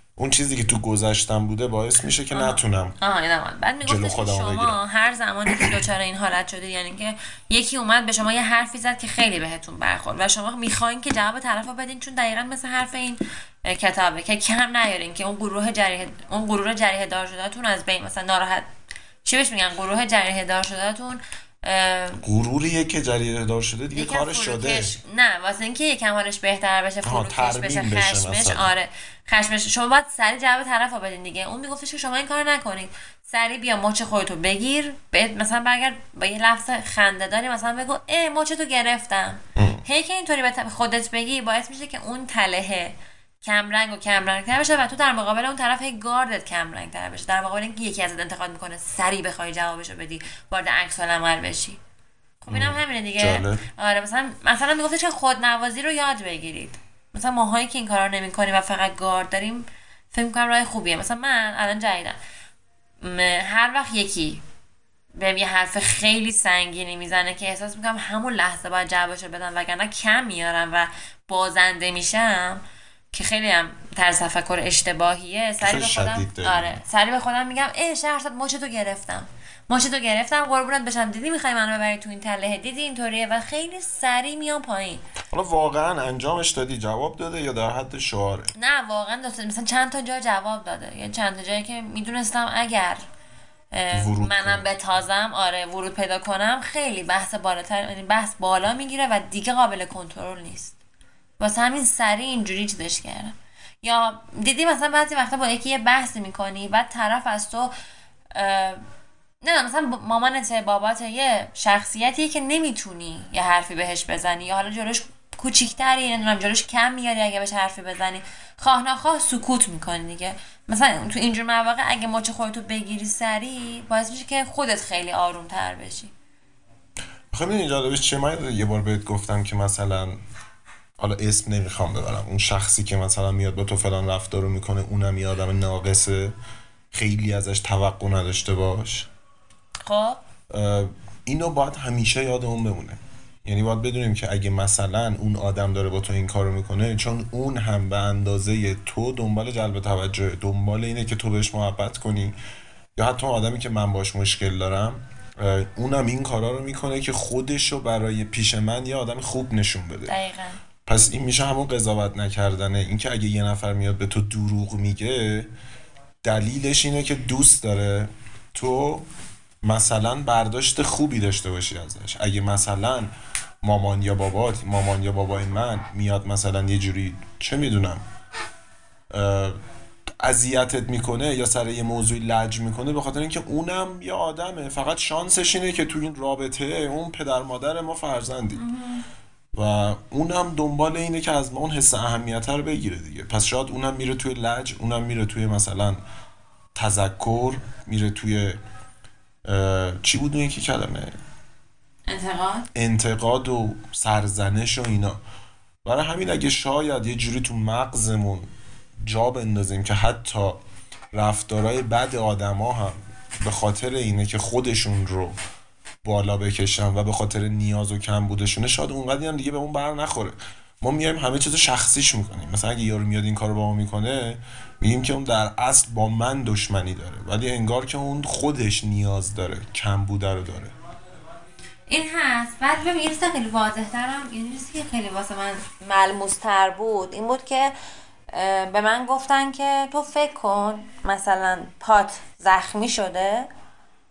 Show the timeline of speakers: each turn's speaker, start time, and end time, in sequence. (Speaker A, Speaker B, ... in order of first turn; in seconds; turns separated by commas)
Speaker A: 0.2-3.0, Speaker B: 2.3-18.7, Speaker A: 3.8-4.8, Speaker B: 19.2-22.2, Speaker A: 22.2-24.9, Speaker B: 23.9-51.8, Speaker A: 27.0-28.7, Speaker A: 39.5-39.8, Speaker B: 52.4-62.2, Speaker A: 52.5-53.6, Speaker B: 63.0-64.4, Speaker B: 65.2-72.6, Speaker B: 73.1-85.0, Speaker A: 75.6-76.8, Speaker A: 85.3-88.5, Speaker B: 88.5-93.0, Speaker B: 93.7-100.7, Speaker A: 93.9-94.7, Speaker B: 101.4-107.7, Speaker B: 108.3-108.8, Speaker B: 109.4-126.1, Speaker A: 127.3-130.2, Speaker A: 131.0-136.3, Speaker A: 136.9-139.1, Speaker B: 139.8-140.2, Speaker A: 140.5-152.4, Speaker A: 153.0-160.1, Speaker B: 160.1-160.6, Speaker A: 160.8-165.5, Speaker A: 166.2-169.0, Speaker A: 169.6-173.1, Speaker A: 173.6-178.0, Speaker A: 179.1-179.6, Speaker A: 180.2-188.6, Speaker B: 188.6-189.0, Speaker A: 189.5-196.0, Speaker A: 196.7-198.6, Speaker A: 199.4-201.2, Speaker B: 202.1-202.7, Speaker A: 202.7-205.2, Speaker A: 205.8-210.6, Speaker A: 211.1-215.3, Speaker A: 216.0-230.7, Speaker B: 231.9-237.7, Speaker B: 238.3-243.5